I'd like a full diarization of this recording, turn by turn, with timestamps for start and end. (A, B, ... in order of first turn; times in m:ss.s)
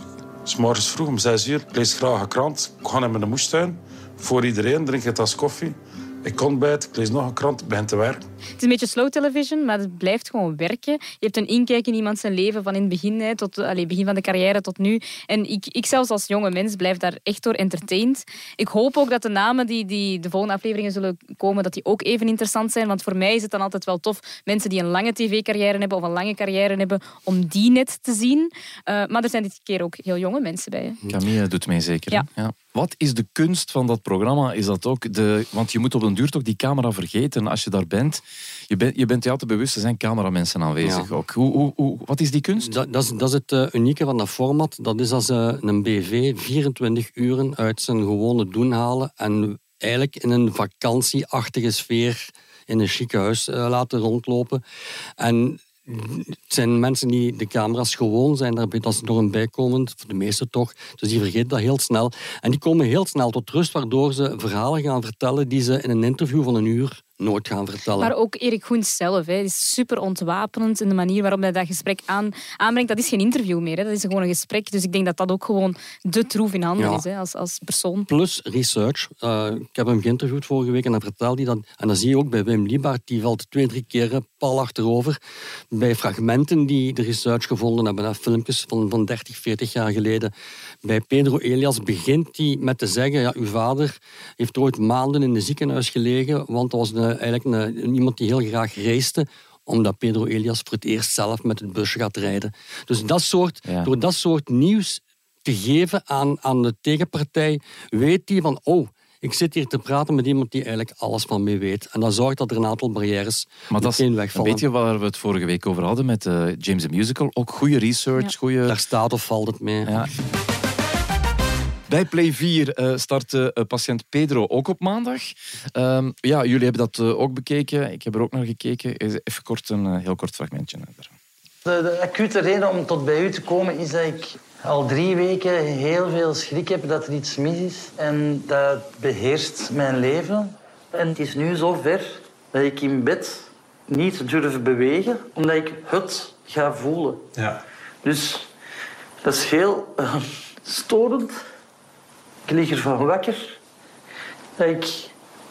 0:00.4-0:08.2 A
0:08.6-0:31.0 B
0:31.1-0:42.8 C
0:40.8-0:41.1 D
0:42.6-0:54.6 D
0:55.2-1:08.1 D
1:08.0-1:18.1 B
1:16.8-1:17.0 D
1:18.1-1:25.2 D
1:25.7-1:30.3 D
1:30.8-1:54.6 D
1:53.7-1:58.8 C
1:58.7-2:00.0 D
1:59.8-2:00.1 C
2:01.9-2:11.1 C
2:11.6-2:27.4 E
2:28.0-2:28.5 E
2:29.2-2:31.4 E
2:32.5-2:33.6 E
2:34.6-2:35.1 E